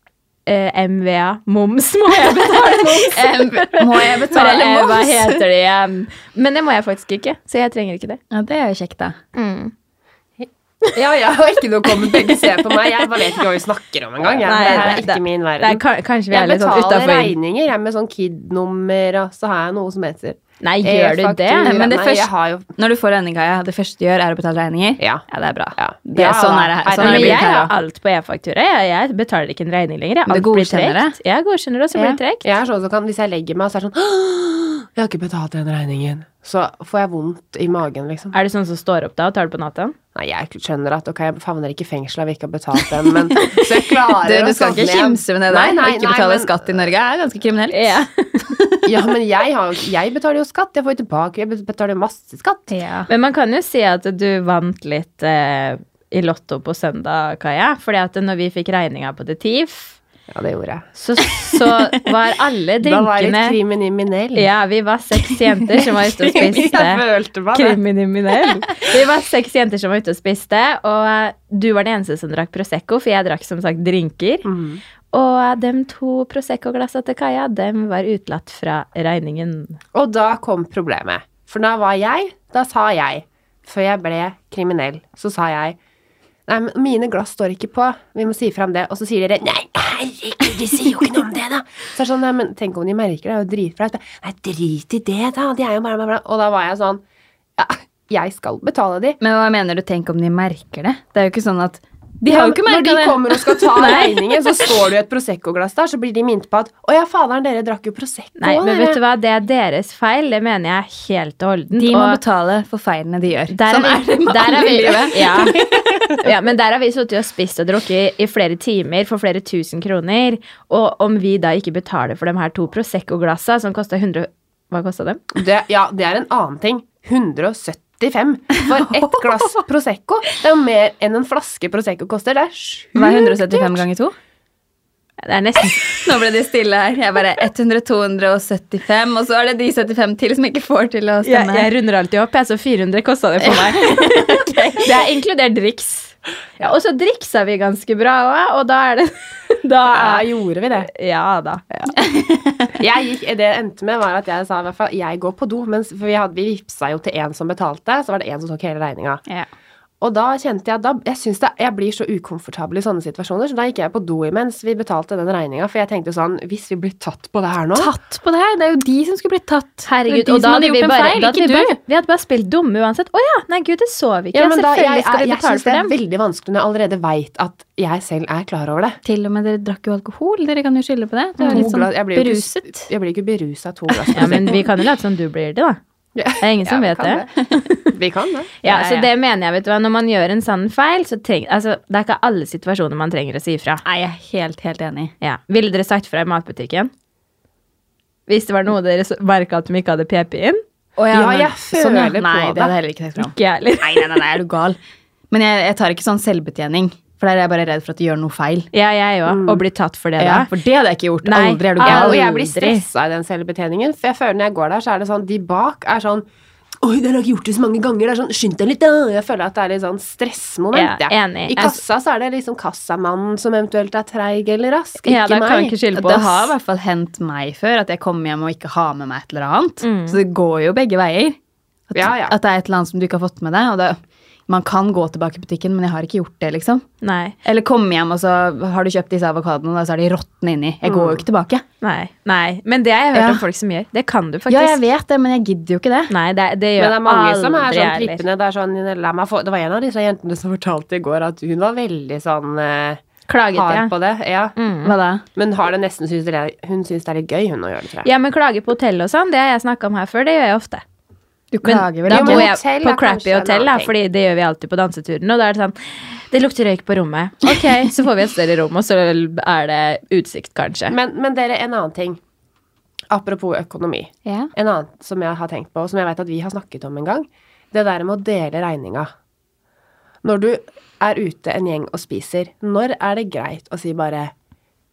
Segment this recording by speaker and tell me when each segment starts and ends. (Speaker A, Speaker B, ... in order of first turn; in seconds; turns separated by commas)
Speaker A: 0.5-8.2, Speaker B: 2.1-5.4, Speaker B: 8.3-9.2, Speaker A: 9.3-9.7, Speaker C: 10.9-22.7, Speaker A: 14.4-17.4, Speaker B: 14.6-15.0, Speaker A: 20.6-21.7, Speaker B: 21.6-27.7, Speaker C: 25.0-25.2, Speaker C: 25.8-27.5, Speaker A: 27.0-32.4, Speaker B: 30.3-31.2, Speaker C: 32.4-38.3, Speaker A: 38.3-40.0, Speaker C: 40.1-46.9, Speaker B: 43.5-48.9, Speaker A: 47.7-48.5, Speaker C: 48.9-52.7, Speaker B: 52.7-53.1, Speaker A: 53.1-60.0, Speaker C: 60.3-60.9, Speaker A: 61.0-63.6, Speaker C: 62.8-64.5, Speaker A: 64.3-74.5, Speaker C: 66.1-67.8, Speaker C: 74.4-74.8, Speaker A: 75.1-79.8, Speaker C: 79.9-85.8, Speaker C: 86.5-97.0, Speaker C: 97.6-99.2, Speaker B: 99.2-103.4, Speaker C: 102.3-109.0, Speaker A: 103.8-104.2, Speaker A: 108.4-112.2, Speaker B: 111.7-115.5, Speaker A: 113.5-115.6, Speaker C: 115.5-116.0, Speaker A: 116.2-125.3, Speaker C: 125.3-133.8, Speaker B: 132.9-134.1, Speaker A: 135.2-136.1, Speaker B: 135.6-141.7, Speaker A: 141.2-150.2, Speaker B: 143.4-144.9, Speaker C: 149.9-150.9, Speaker A: 150.8-151.6, Speaker B: 151.9-152.7, Speaker C: 152.8-159.2, Speaker C: 160.0-167.9, Speaker B: 167.7-171.8, Speaker A: 169.9-175.9, Speaker C: 174.3-179.0, Speaker B: 179.0-182.9, Speaker A: 181.4-181.7, Speaker C: 181.4-184.6, Speaker B: 183.9-184.6, Speaker A: 184.1-185.8, Speaker C: 186.2-187.3, Speaker A: 186.4-187.8, Speaker C: 187.9-188.6, Speaker A: 188.6-193.8, Speaker B: 188.6-189.1, Speaker B: 193.8-195.1, Speaker A: 195.2-196.9, Speaker A: 198.3-200.6, Speaker B: 201.0-204.8, Speaker C: 201.1-202.7, Speaker A: 203.2-204.2, Speaker B: 205.3-208.7, Speaker A: 208.7-210.5, Speaker C: 209.3-209.6, Speaker B: 210.2-212.2, Speaker A: 211.2-212.8, Speaker C: 211.8-216.2, Speaker C: 216.8-225.7, Speaker A: 220.7-221.8, Speaker A: 225.0-226.5, Speaker B: 225.4-231.4, Speaker A: 229.8-230.2, Speaker B: 231.9-236.8, Speaker C: 231.9-232.3, Speaker A: 237.0-237.3, Speaker B: 237.4-241.6, Speaker C: 240.8-241.2, Speaker A: 241.8-244.8, Speaker B: 243.1-243.4, Speaker B: 244.5-246.1, Speaker A: 246.1-248.2, Speaker C: 246.8-253.0, Speaker A: 253.3-253.9, Speaker C: 253.5-254.5, Speaker A: 254.6-254.9, Speaker B: 254.8-255.2, Speaker C: 255.3-258.1, Speaker A: 258.0-260.8, Speaker B: 261.5-262.5, Speaker A: 261.6-270.9, Speaker C: 262.1-263.9, Speaker C: 270.9-272.2, Speaker C: 273.1-279.1, Speaker C: 280.2-284.3